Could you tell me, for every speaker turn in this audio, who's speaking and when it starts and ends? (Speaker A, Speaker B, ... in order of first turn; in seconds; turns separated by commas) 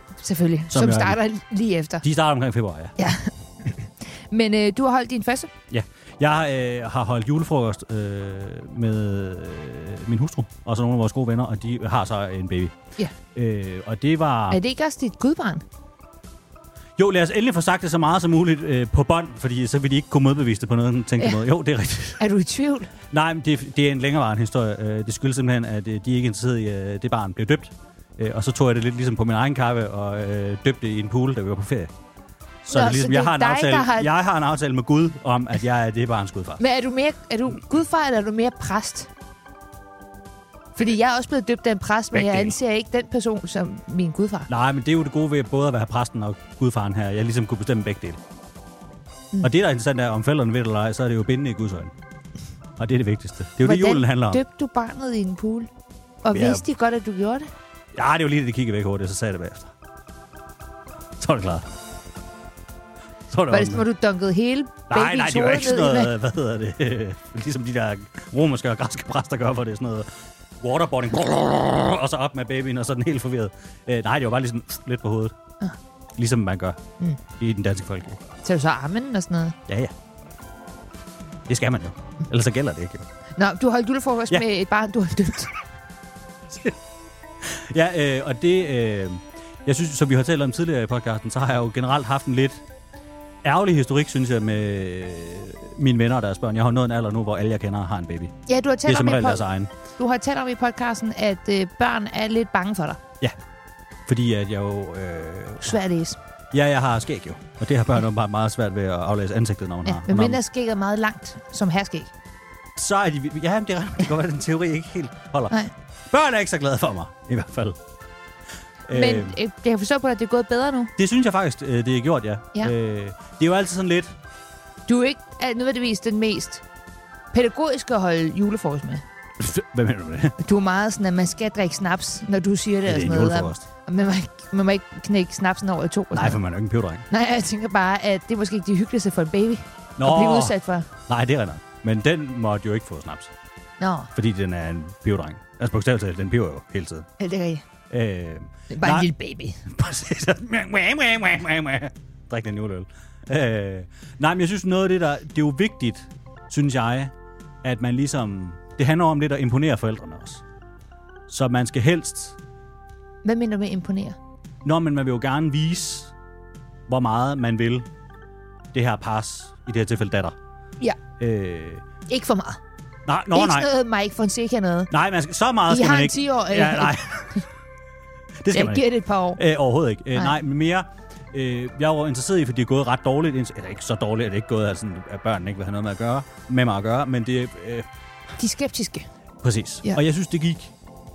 Speaker A: 0.2-2.0, Speaker B: 0.7-1.2, Speaker B: 2.0-2.9, Speaker A: 3.0-5.5, Speaker B: 5.7-12.7, Speaker B: 13.3-14.6, Speaker A: 14.5-15.6, Speaker B: 17.0-22.2, Speaker A: 22.2-22.9, Speaker B: 23.1-31.9, Speaker B: 32.6-36.6, Speaker A: 32.7-34.1, Speaker A: 36.6-39.1, Speaker A: 40.8-44.5, Speaker B: 42.1-42.6, Speaker B: 44.5-48.2, Speaker B: 49.4-51.9, Speaker B: 52.8-54.4, Speaker A: 53.6-55.7, Speaker A: 56.2-57.5, Speaker B: 56.3-56.6, Speaker B: 57.9-59.7, Speaker B: 61.2-61.6, Speaker B: 63.3-63.8, Speaker A: 63.5-66.1, Speaker B: 64.9-70.1, Speaker B: 70.6-75.3, Speaker B: 76.2-76.8, Speaker B: 77.4-78.2, Speaker A: 78.4-79.5, Speaker B: 79.7-79.9, Speaker B: 81.5-83.0, Speaker A: 83.4-85.5, Speaker B: 86.5-86.8, Speaker B: 87.4-92.6, Speaker B: 93.4-99.7, Speaker A: 98.5-103.0, Speaker B: 104.1-105.8, Speaker A: 105.6-106.2, Speaker B: 106.5-110.4, Speaker A: 109.8-112.1, Speaker B: 112.8-115.5, Speaker B: 116.1-117.8, Speaker B: 118.9-119.4, Speaker A: 118.9-120.9, Speaker B: 121.0-124.1, Speaker A: 124.9-126.6, Speaker A: 127.3-129.0, Speaker B: 129.4-130.3, Speaker A: 130.4-136.4, Speaker B: 132.8-133.6, Speaker B: 136.1-137.1, Speaker A: 137.1-140.9, Speaker B: 140.0-143.3, Speaker A: 143.8-144.1, Speaker B: 144.1-147.1, Speaker A: 147.2-147.6, Speaker B: 147.9-149.1, Speaker A: 148.7-149.6, Speaker B: 149.7-160.4, Speaker B: 161.3-162.3, Speaker A: 163.2-164.2, Speaker B: 164.6-166.1, Speaker B: 166.9-167.9, Speaker B: 168.7-170.3, Speaker B: 171.2-171.8, Speaker A: 172.1-172.6, Speaker B: 173.1-173.7, Speaker A: 173.3-174.9, Speaker B: 174.9-177.4, Speaker A: 175.7-177.0, Speaker B: 178.4-187.9, Speaker A: 178.5-179.4, Speaker A: 188.4-189.1, Speaker B: 189.4-190.7